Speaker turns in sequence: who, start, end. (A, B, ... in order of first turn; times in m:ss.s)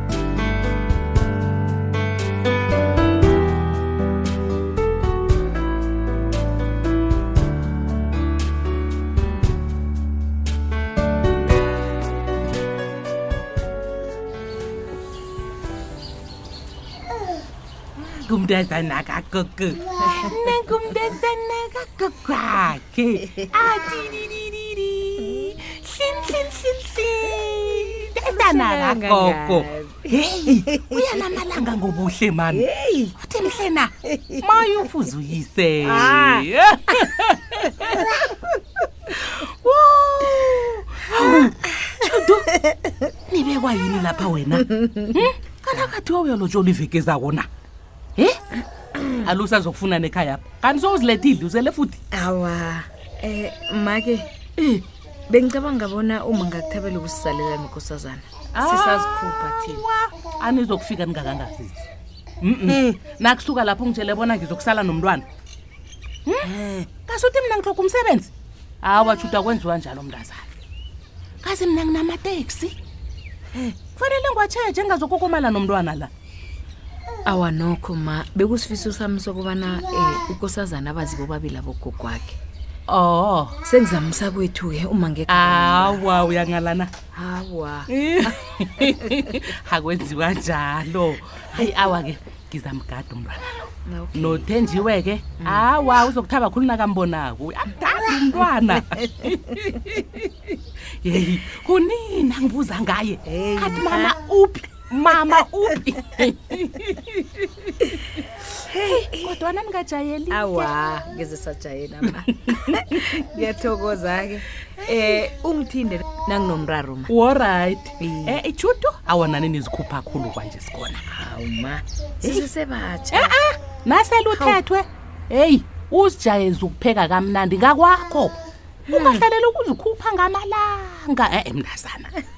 0:18.0-0:38.2 A
0:28.7-0:30.0 B
0:32.8-0:33.1 B
0:36.0-0:36.3 B
0:39.2-0:42.5 A
0:43.3-0:47.5 A
0:49.2-0:52.0 A
0:52.1-0:59.8 B
0:58.5-1:01.8 A
1:02.4-1:05.2 A
1:06.3-1:08.3 A
1:08.8-1:10.5 A
1:11.4-1:12.8 A
1:13.8-1:16.1 A
1:17.3-1:22.4 B
1:22.9-1:23.6 A
1:23.6-1:26.0 B
1:25.3-1:26.9 A
1:27.2-1:28.3 B
1:27.9-1:40.3 A
1:33.9-1:34.4 B
1:41.0-1:47.9 A
1:43.3-1:44.1 B
1:48.8-1:49.3 B
1:48.9-1:50.7 A
1:50.3-1:57.1 B
1:52.5-1:53.0 A
1:54.9-1:55.2 A
1:57.1-2:01.0 A
1:58.0-1:58.4 B
2:01.1-2:03.3 B
2:03.1-2:08.4 A
2:04.3-2:04.6 B
2:08.9-2:12.1 A
2:08.9-2:09.2 B